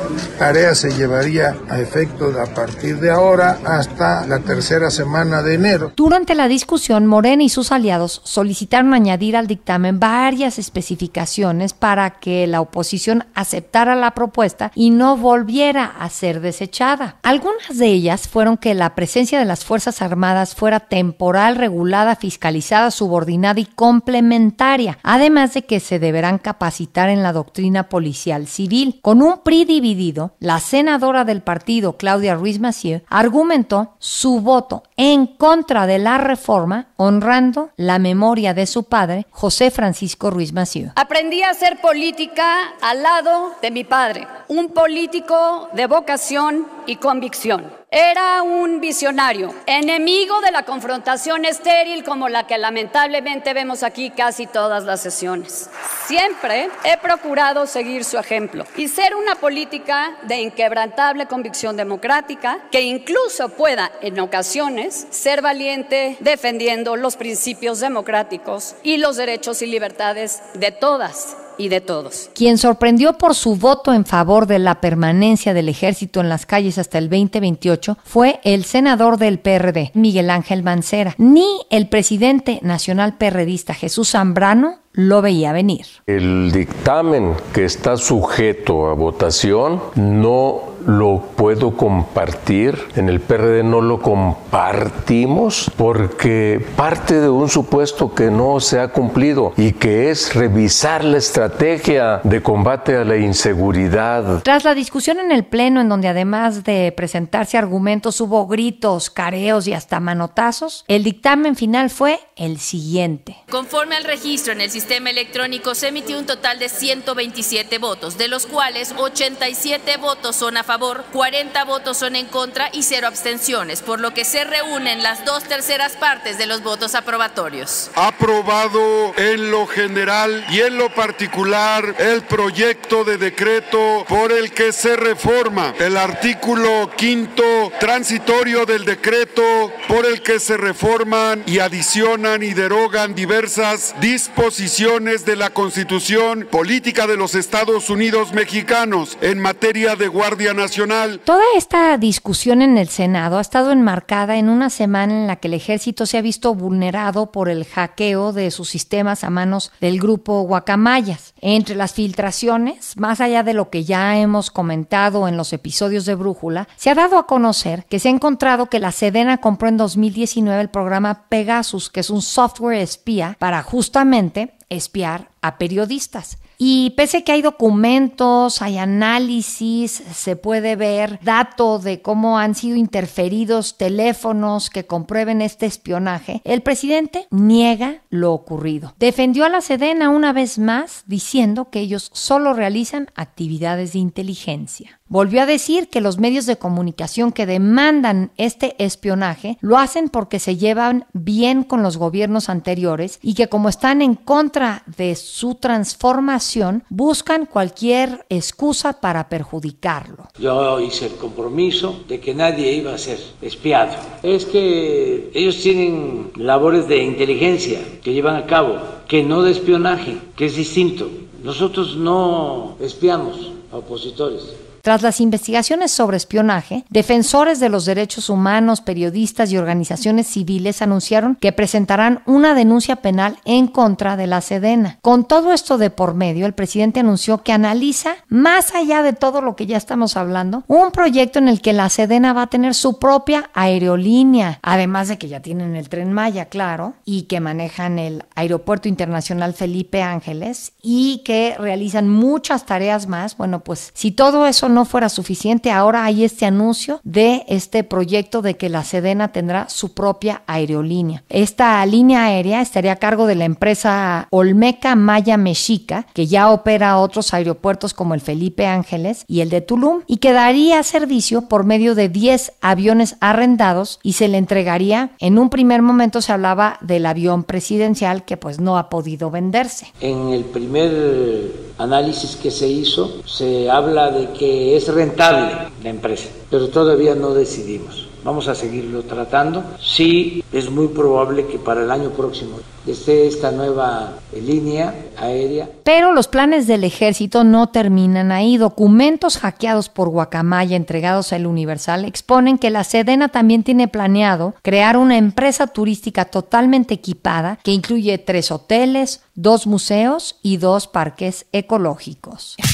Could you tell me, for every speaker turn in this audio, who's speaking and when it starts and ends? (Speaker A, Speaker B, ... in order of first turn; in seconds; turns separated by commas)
Speaker A: 0.4-5.9, Speaker B: 6.0-40.9, Speaker C: 41.0-72.3, Speaker B: 72.3-86.0, Speaker D: 86.1-104.4, Speaker B: 104.4-113.4, Speaker E: 113.5-127.9, Speaker F: 128.0-151.2, Speaker B: 151.3-210.3, Speaker G: 210.4-224.6, Speaker B: 224.8-279.9, Speaker G: 280.0-295.7, Speaker B: 295.9-312.6